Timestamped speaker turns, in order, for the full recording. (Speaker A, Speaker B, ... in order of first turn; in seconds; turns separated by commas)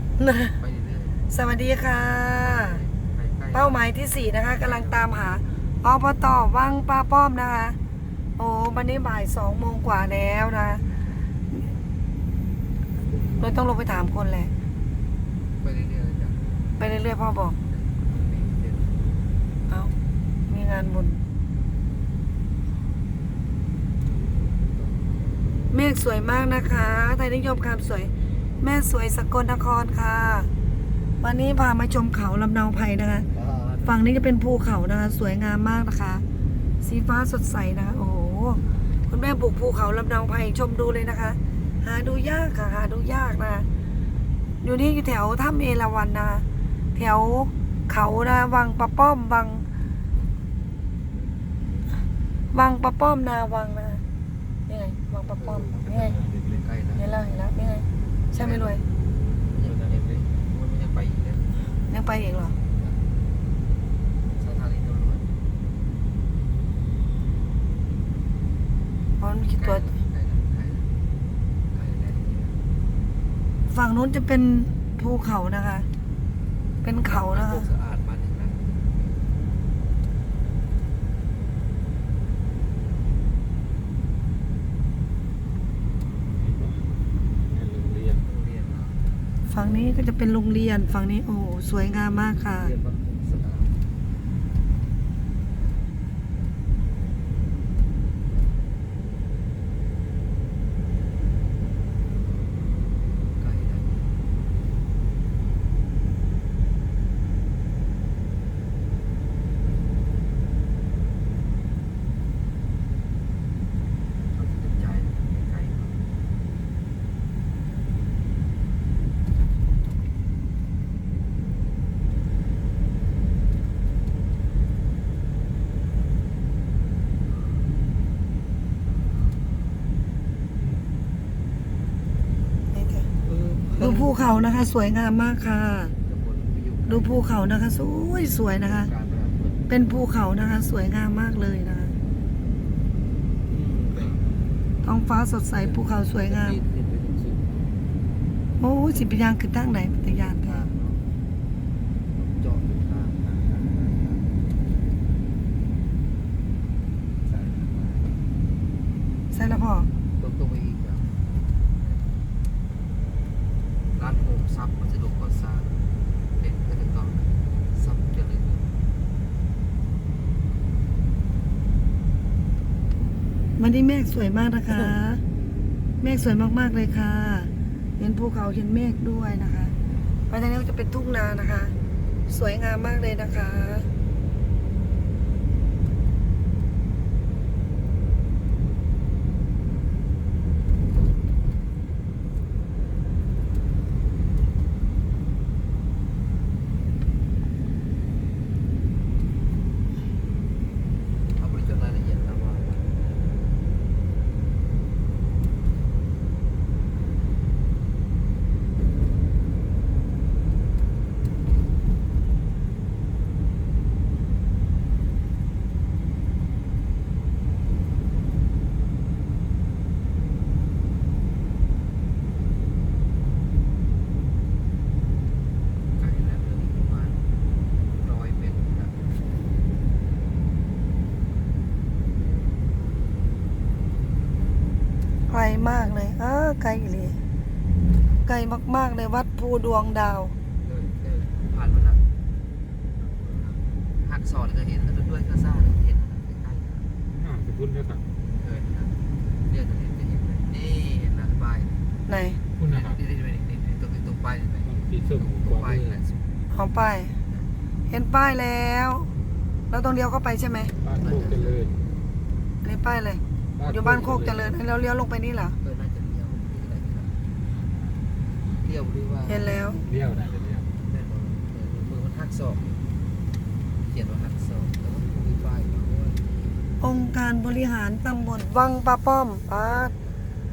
Speaker A: 0.2-0.6, Speaker B: 0.6-1.2, Speaker A: 1.3-2.8, Speaker B: 2.2-3.9, Speaker A: 3.5-7.8, Speaker B: 4.5-5.1, Speaker A: 8.4-11.7, Speaker C: 12.9-13.6, Speaker A: 13.4-14.5, Speaker B: 15.6-16.8, Speaker A: 16.8-17.6, Speaker B: 17.6-19.0, Speaker A: 19.7-19.9, Speaker A: 20.5-21.2, Speaker B: 24.6-25.6, Speaker A: 25.7-30.5, Speaker A: 31.2-33.3, Speaker B: 33.3-34.0, Speaker A: 33.8-36.2, Speaker A: 36.8-43.7, Speaker A: 44.6-49.7, Speaker B: 51.2-51.9, Speaker A: 52.5-54.0, Speaker A: 54.7-56.2, Speaker B: 55.4-57.1, Speaker C: 55.6-56.6, Speaker A: 57.0-58.8, Speaker B: 58.4-58.8, Speaker B: 59.4-61.5, Speaker C: 59.6-60.3, Speaker A: 61.9-62.6, Speaker B: 62.7-63.0, Speaker B: 64.4-65.3, Speaker A: 69.2-69.8, Speaker B: 69.5-70.9, Speaker B: 71.7-72.6, Speaker A: 73.7-75.9, Speaker A: 76.8-77.7, Speaker B: 77.0-79.2, Speaker C: 86.2-86.9, Speaker C: 87.4-88.3, Speaker B: 88.2-90.0, Speaker A: 89.5-92.7, Speaker B: 92.1-93.8, Speaker B: 103.3-104.1, Speaker B: 114.3-116.0, Speaker C: 130.6-130.9, Speaker A: 132.7-133.1, Speaker B: 133.2-134.2, Speaker A: 133.8-135.9, Speaker B: 135.9-137.3, Speaker A: 136.8-138.9, Speaker B: 138.5-139.7, Speaker A: 139.7-141.9, Speaker B: 143.4-144.2, Speaker A: 144.8-146.6, Speaker B: 145.5-147.6, Speaker A: 148.6-150.6, Speaker B: 150.1-151.0, Speaker B: 152.1-154.3, Speaker B: 157.2-158.2, Speaker A: 159.3-159.9, Speaker B: 160.2-162.2, Speaker B: 163.9-165.8, Speaker B: 166.4-168.7, Speaker A: 173.6-175.2, Speaker A: 176.0-179.7, Speaker A: 180.3-181.7, Speaker A: 182.3-183.9, Speaker B: 201.3-203.0, Speaker B: 225.9-227.2, Speaker B: 228.0-228.9, Speaker A: 235.3-237.2, Speaker A: 238.2-240.3, Speaker B: 240.6-242.0, Speaker B: 243.0-246.9, Speaker C: 247.1-248.0, Speaker B: 248.2-251.8, Speaker A: 252.1-252.4, Speaker C: 252.6-253.0, Speaker B: 252.6-256.4, Speaker C: 254.6-256.0, Speaker A: 256.5-257.1, Speaker B: 257.2-257.5, Speaker A: 257.9-259.1, Speaker A: 259.7-260.7, Speaker C: 260.8-261.8, Speaker B: 260.9-261.7, Speaker A: 262.6-265.6, Speaker C: 263.6-264.6, Speaker B: 265.6-267.2, Speaker C: 267.7-268.0, Speaker B: 268.6-269.6, Speaker A: 269.2-269.8, Speaker C: 269.8-270.7, Speaker B: 270.8-272.8, Speaker B: 273.8-276.5, Speaker A: 276.8-279.9, Speaker B: 279.6-280.3